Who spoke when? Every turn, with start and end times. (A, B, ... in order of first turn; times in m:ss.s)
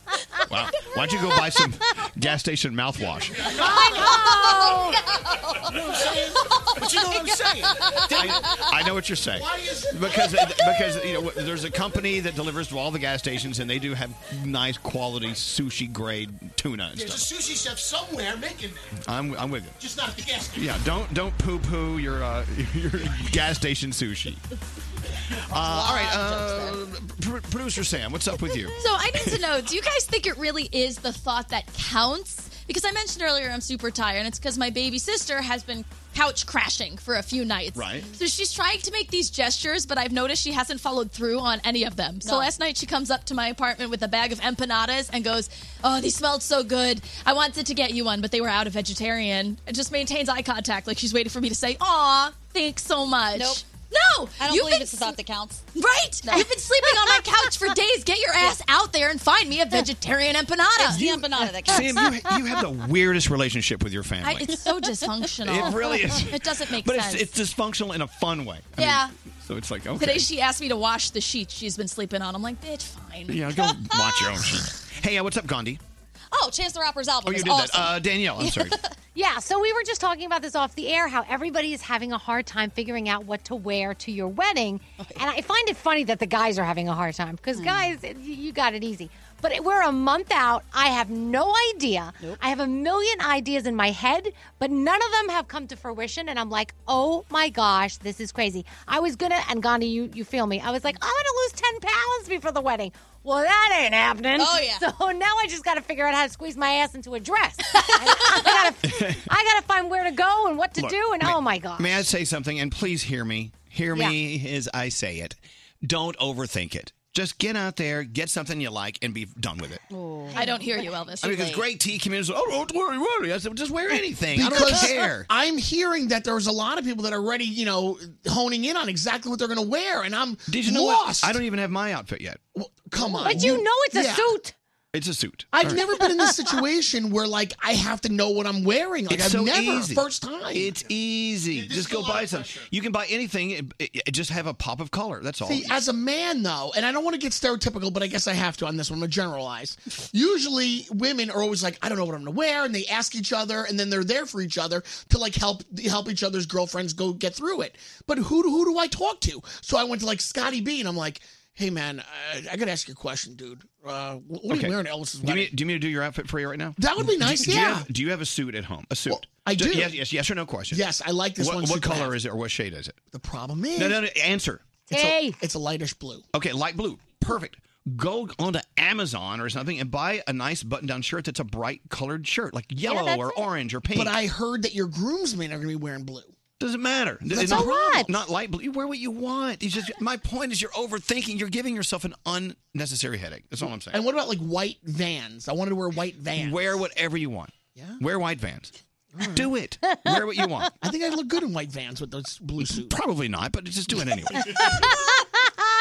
0:00.5-0:03.6 A
0:03.5-0:04.2 B
0:03.6-0:05.0 C
0:03.6-0:08.7 D
0:05.7-0:08.6 B
0:08.1-0:17.3 A
0:09.3-0:10.4 B
0:10.5-0:11.0 D
0:17.0-0:19.0 B
0:19.0-0:19.8 A
0:19.8-0:20.8 B
0:20.5-0:24.4 A
0:25.5-0:29.4 A
0:25.6-0:26.8 D
0:28.8-0:55.2 E
0:37.8-0:38.1 A
0:42.2-0:42.5 D
0:53.4-0:53.6 D
0:54.4-0:55.6 D
0:55.8-1:01.0 E
1:00.8-1:02.1 D
1:00.9-1:04.5 A
1:04.2-1:07.3 E
1:05.4-1:10.3 A
1:08.8-1:09.1 E
1:10.0-1:13.7 E
1:13.3-1:15.8 A
1:16.3-1:18.9 D
1:17.3-1:18.8 A
1:19.2-1:52.0 C
1:25.0-1:25.2 D
1:27.6-1:28.0 D
1:44.4-1:44.9 D
1:47.7-1:48.5 D
1:48.9-1:49.3 A
1:50.8-1:59.8 A
2:00.3-2:00.8 C
2:00.4-2:01.7 E
2:01.2-2:05.3 A
2:04.3-2:11.4 F
2:10.5-2:12.4 A
2:12.6-2:14.3 F
2:13.0-2:14.5 C
2:13.3-2:13.6 A
2:14.9-2:16.0 A
2:15.5-2:20.8 F
2:16.0-2:16.3 C
2:19.1-2:25.8 A
2:21.5-2:22.7 B
2:25.4-2:45.5 F
2:44.5-2:50.8 A
2:46.8-2:47.9 F
2:49.1-2:50.0 F
2:50.7-2:52.1 F
2:51.4-2:53.0 A
2:53.1-2:54.0 F
2:53.8-2:54.9 A
2:54.9-2:55.4 C
2:54.9-2:56.2 F
2:56.3-3:04.2 A
3:02.8-3:03.4 C
3:03.9-3:06.4 F
3:06.6-3:14.0 A
3:07.3-3:07.7 F
3:07.4-3:08.1 C
3:13.9-3:16.7 F
3:16.4-3:18.7 A
3:17.8-3:18.0 F
3:19.2-3:19.5 F
3:19.3-3:20.7 A
3:19.8-3:20.7 C
3:20.8-3:23.0 F
3:22.6-3:25.0 A
3:24.4-3:25.3 C